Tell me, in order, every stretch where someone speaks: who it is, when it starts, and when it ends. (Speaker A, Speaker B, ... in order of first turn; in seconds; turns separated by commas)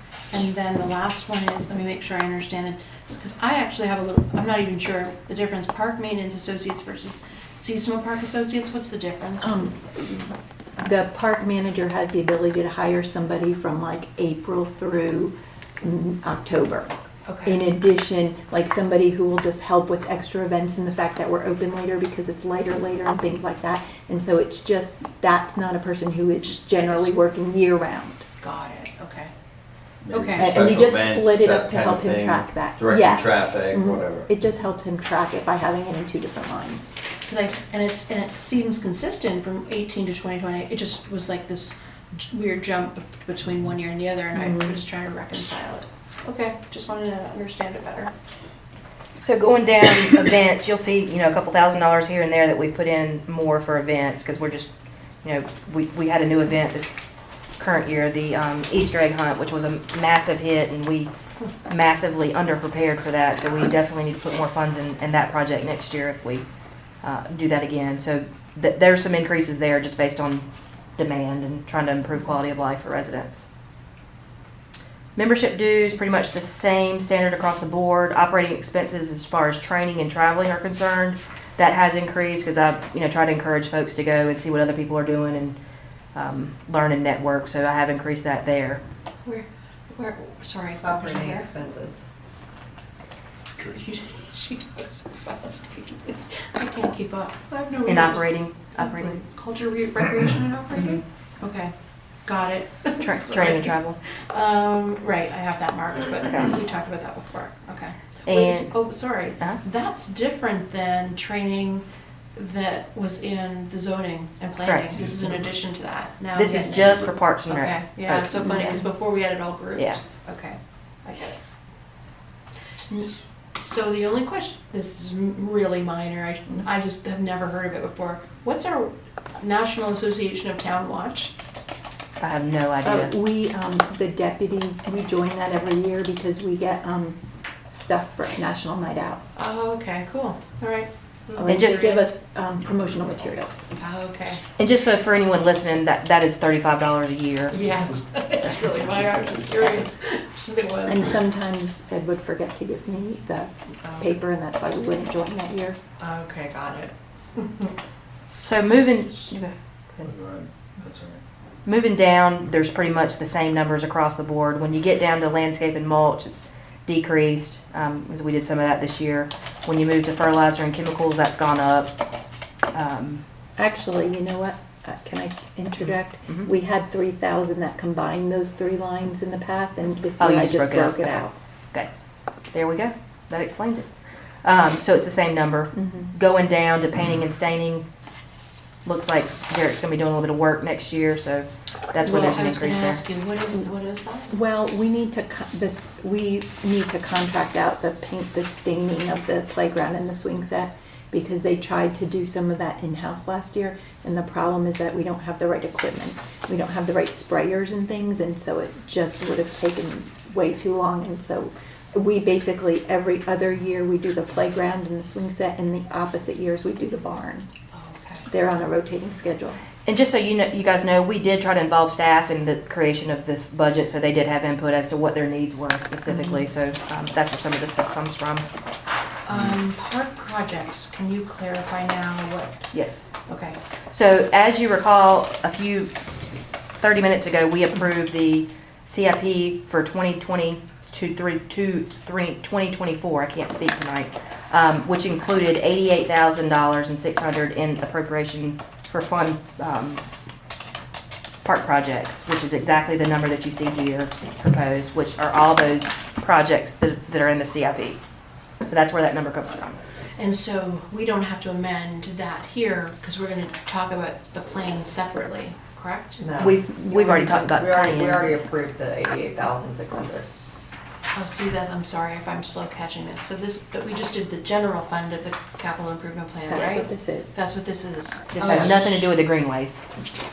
Speaker A: 0.3-9.5, Speaker B: 9.4-16.9, Speaker A: 17.3-17.6, Speaker B: 17.4-28.2, Speaker A: 26.6-27.1, Speaker A: 28.4-29.3, Speaker C: 30.0-34.3, Speaker A: 30.1-30.6, Speaker B: 30.4-36.9, Speaker A: 37.2-48.1, Speaker B: 44.3-44.8, Speaker D: 49.2-54.7, Speaker D: 55.2-57.0, Speaker D: 57.6-61.1, Speaker D: 61.7-66.4, Speaker D: 67.0-70.4, Speaker D: 71.0-73.4, Speaker D: 75.2-85.6, Speaker D: 86.1-88.8, Speaker A: 89.2-91.5, Speaker E: 90.8-92.0, Speaker A: 93.6-101.7, Speaker D: 97.9-99.2, Speaker A: 102.2-103.8, Speaker D: 103.0-104.0, Speaker A: 104.3-111.8, Speaker D: 106.2-106.5, Speaker D: 108.2-108.7, Speaker A: 112.3-121.4, Speaker D: 114.6-115.0, Speaker D: 116.3-118.8, Speaker B: 118.4-118.8, Speaker D: 119.7-120.0, Speaker A: 122.9-131.3, Speaker D: 132.2-133.1, Speaker B: 132.8-137.2, Speaker B: 137.7-139.2, Speaker A: 139.3-142.1, Speaker B: 141.3-143.6, Speaker D: 141.4-142.1, Speaker A: 143.7-144.4, Speaker D: 144.6-147.7, Speaker A: 147.5-151.2, Speaker B: 150.8-155.8, Speaker A: 153.8-154.1, Speaker A: 156.0-157.8, Speaker D: 158.3-160.1, Speaker C: 160.0-161.2, Speaker D: 161.6-171.9, Speaker D: 172.7-173.2, Speaker B: 173.6-181.3, Speaker D: 180.2-181.1, Speaker D: 182.5-183.9, Speaker D: 184.4-187.8, Speaker B: 185.7-186.1, Speaker D: 188.8-193.0, Speaker A: 192.0-194.3, Speaker B: 194.3-217.5, Speaker A: 217.7-218.3, Speaker B: 218.3-219.6, Speaker D: 219.8-228.4, Speaker B: 226.1-226.5, Speaker A: 229.2-232.7, Speaker D: 232.7-233.1, Speaker A: 233.2-233.6, Speaker D: 233.9-235.9, Speaker D: 236.8-250.0, Speaker D: 251.4-258.0, Speaker D: 258.6-259.8, Speaker A: 260.1-266.2, Speaker E: 266.2-270.2, Speaker D: 266.4-268.4, Speaker A: 271.1-279.0, Speaker B: 276.5-277.3, Speaker D: 276.5-276.9, Speaker D: 278.3-279.8, Speaker E: 278.4-278.8